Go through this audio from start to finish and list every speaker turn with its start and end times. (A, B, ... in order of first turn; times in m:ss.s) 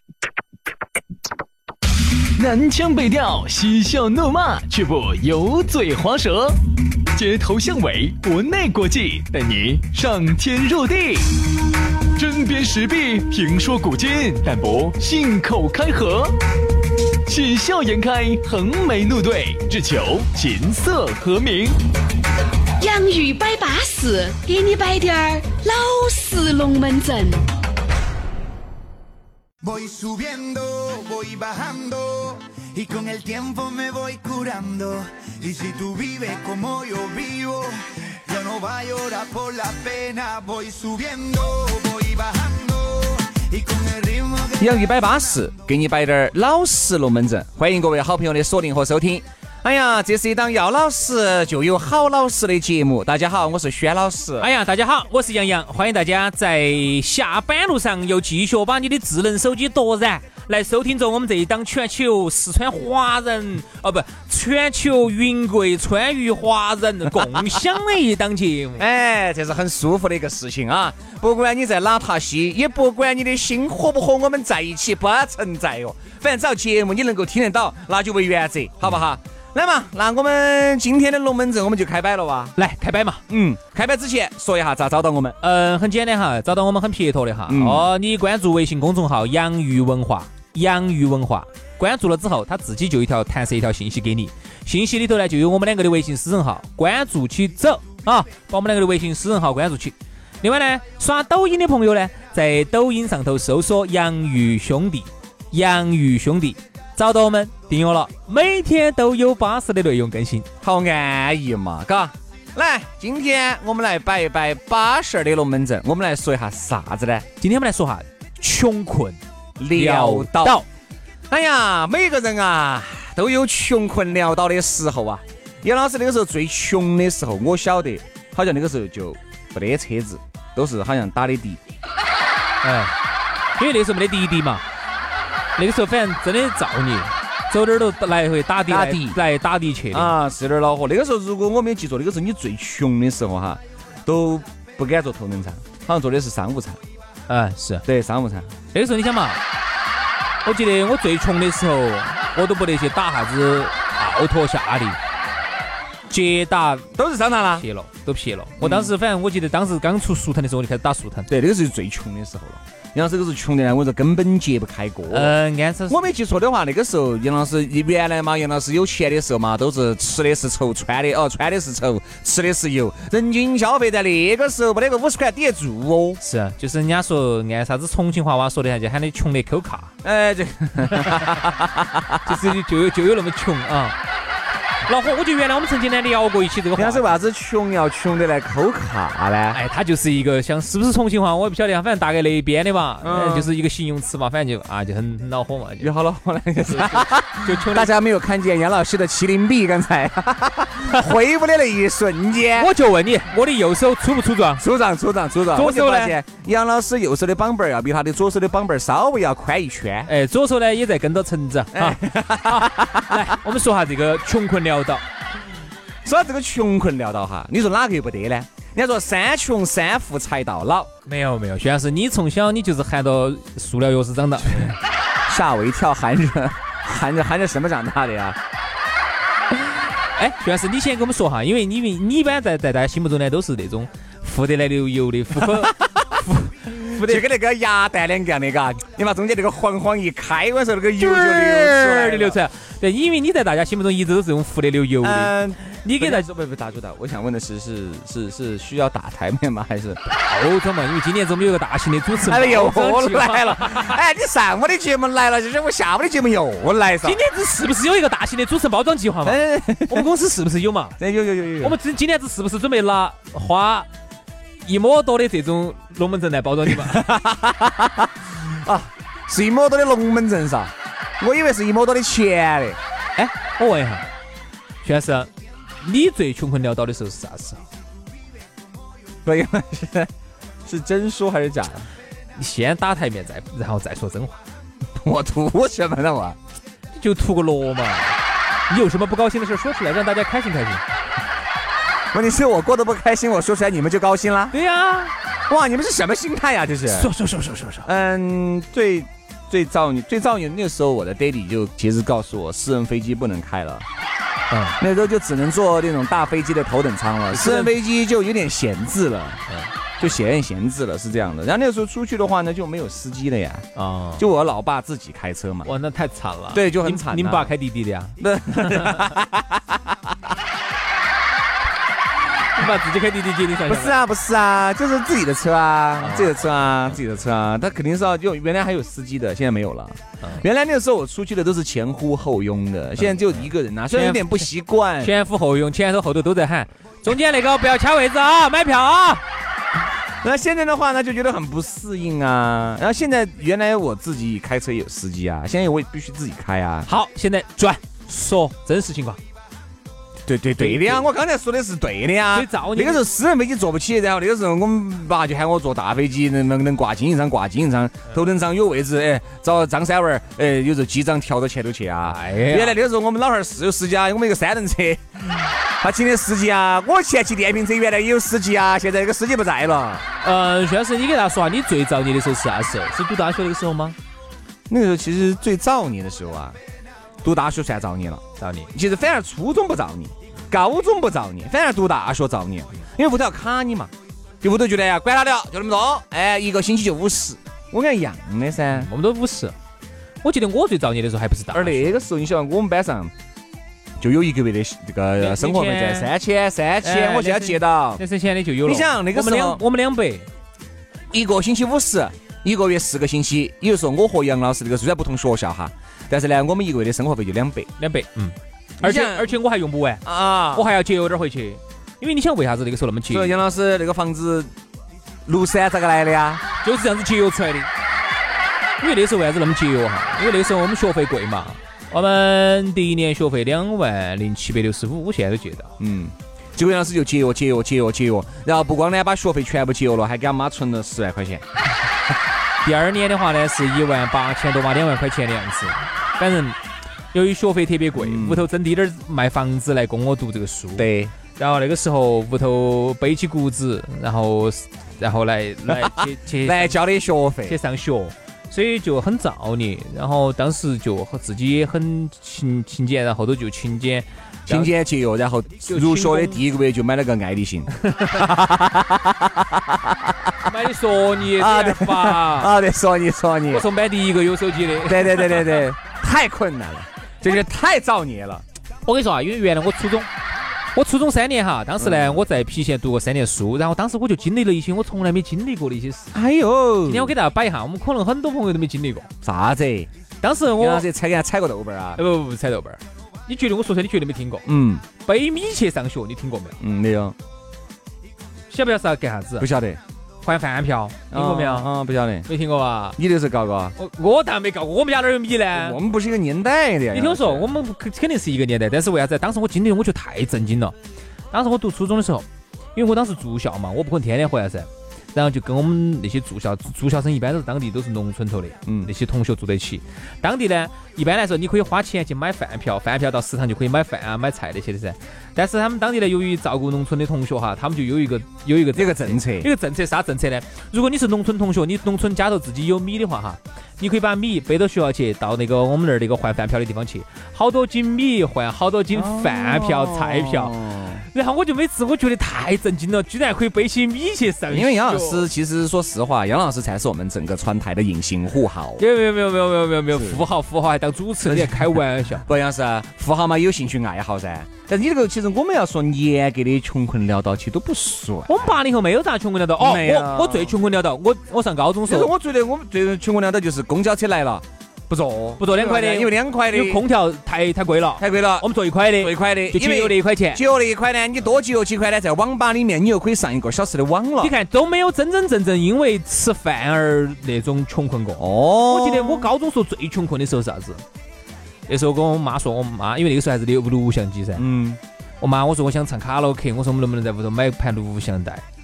0:02.4-0:06.5 A
0:07.1-0:11.2 A
0:12.2-0:16.3 A
0:17.2-0:21.7 A
0:22.8-0:27.4 B
0:29.6-0:44.9 C
0:44.6-0:54.5 D
0:54.4-1:08.8 E
1:08.8-1:22.6 D
1:22.6-1:23.2 E
1:23.3-1:25.4 D
1:25.4-1:50.5 E
1:27.5-1:27.9 D
1:50.6-1:57.2 D
1:57.4-1:59.2 E
1:59.6-2:00.6 D
1:59.7-2:00.7 E
2:01.3-2:11.6 D
2:12.6-2:12.9 E
2:13.6-2:14.6 E
2:15.6-2:20.1 E
2:18.7-2:19.2 D
2:19.9-2:26.8 D
2:27.3-2:27.8 E
2:27.8-2:28.5 D
2:28.7-2:29.4 E
2:30.4-2:35.0 E
2:36.1-2:36.9 E
2:36.9-2:37.7 D
2:37.6-2:41.3 E
2:38.6-2:38.9 D
2:41.3-2:45.3 D
2:45.1-2:46.0 E
2:45.9-2:56.2 D
2:56.2-2:59.9 E
3:00.0-3:02.4 D
3:00.9-3:01.2 E
3:02.2-3:04.0 E
3:04.8-3:07.2 E
3:06.8-3:09.6 D
3:09.5-3:15.9 E
3:13.0-3:13.5 D
3:15.8-3:22.7 D
3:16.6-3:17.9 E
3:22.6-3:24.6 E
3:24.6-3:30.1 D
3:25.5-3:26.2 E
3:30.1-3:35.0 E
3:31.7-3:33.4 D
3:36.0-3:40.9 D
3:41.0-3:44.7 E
3:44.5-3:48.4 D
3:50.1-3:57.2 E
3:55.4-3:56.0 D
3:56.7-4:02.4 D
4:01.0-4:06.2 E
4:05.0-4:10.0 D
4:10.1-4:14.0 E
4:12.2-4:17.2 D
4:17.0-4:21.0 E
4:19.2-4:20.1 D
4:21.0-4:21.8 D
4:21.6-4:23.9 E
4:24.6-4:27.0 E
4:26.7-4:32.8 D
4:33.2-4:34.1 E
4:34.8-4:35.3 E
4:35.8-4:37.6 E
4:39.2-4:40.1 D
4:40.6-4:41.9 D
4:42.4-4:44.4 E
4:45.0-4:46.4 D
4:46.9-4:50.8 E
4:52.1-4:54.6 D
4:54.5-4:55.1 E
4:55.5-4:57.1 D
4:56.9-4:57.9 E
4:57.8-5:03.9 D
5:04.5-5:04.8 E
5:04.8-5:09.4 D
5:07.3-5:07.7 E
5:10.0-5:13.7 D
5:13.8-5:14.2 E
5:14.2-5:15.7 D
5:15.6-5:19.0 E
5:16.5-5:17.5 D
5:18.2-5:20.2 D
5:22.5-5:24.0 E
5:23.7-5:35.1 D
5:26.0-5:26.3 E
5:33.0-5:34.4 E
5:35.0-5:39.2 E
5:40.2-5:46.9 D
5:46.9-5:49.2 E
5:50.3-6:10.0 D
5:50.6-5:51.1 E
5:52.3-5:53.0 E
6:02.0-6:02.8 E
6:10.2-6:14.0 E
6:14.7-6:16.6 D
6:17.2-6:18.2 D
6:18.4-6:18.7 E
6:18.7-6:23.9 D
6:24.4-6:28.9 D
6:28.7-6:29.6 E
6:30.2-6:32.0 E
6:31.5-6:33.1 D
6:34.0-6:38.0 D
6:35.2-6:36.1 E
6:36.8-6:40.3 E
6:38.6-6:39.6 D
6:41.1-6:47.7 D
6:47.8-6:53.4 E
6:48.8-6:49.3 D
6:50.0-6:50.7 D
6:53.1-6:54.5 D
6:55.2-6:56.4 D
6:56.6-6:57.7 E
6:58.8-7:05.7 E
7:05.8-7:11.4 D
7:12.6-7:16.6 E
7:17.1-7:26.8 E
7:17.9-7:18.5 D
7:20.8-7:21.1 D
7:25.7-7:27.6 D
7:27.5-7:34.7 E
7:34.5-7:40.2 D
7:35.6-7:36.4 E
7:40.5-7:42.5 E
7:41.4-7:43.7 D
7:43.5-7:45.7 E
7:44.9-7:48.4 D
7:48.8-7:50.1 E
7:50.7-7:56.1 E
7:51.8-7:52.2 D
7:56.1-7:57.2 D
7:56.9-7:59.1 E
7:59.2-7:59.9 D
8:00.2-8:00.9 E
8:00.6-8:02.0 D
8:02.0-8:04.5 E
8:04.5-8:04.8 D
8:05.0-8:06.6 E
8:06.6-8:07.2 D
8:08.5-8:09.5 E
8:09.4-8:09.8 D
8:10.2-8:11.7 E
8:11.1-8:12.3 D
8:12.3-8:13.0 E
8:13.0-8:13.8 D
8:13.8-8:15.8 E
8:15.5-8:17.6 D
8:16.9-8:20.8 E
8:21.3-8:50.6 E
8:28.7-8:28.9 D
8:38.7-8:39.5 D
8:48.9-8:51.0 D
8:51.1-8:55.3 E
8:54.5-8:58.8 D
8:58.8-9:02.2 E
8:59.9-9:00.2 D
9:01.2-9:08.3 D
9:08.3-9:12.1 E
9:09.6-9:10.6 D
9:11.9-9:16.8 D
9:15.4-9:20.4 E
9:18.0-9:24.3 D
9:24.2-9:30.8 E
9:28.2-9:29.3 D
9:31.7-9:34.4 E
9:34.4-9:34.8 D
9:35.2-9:38.4 E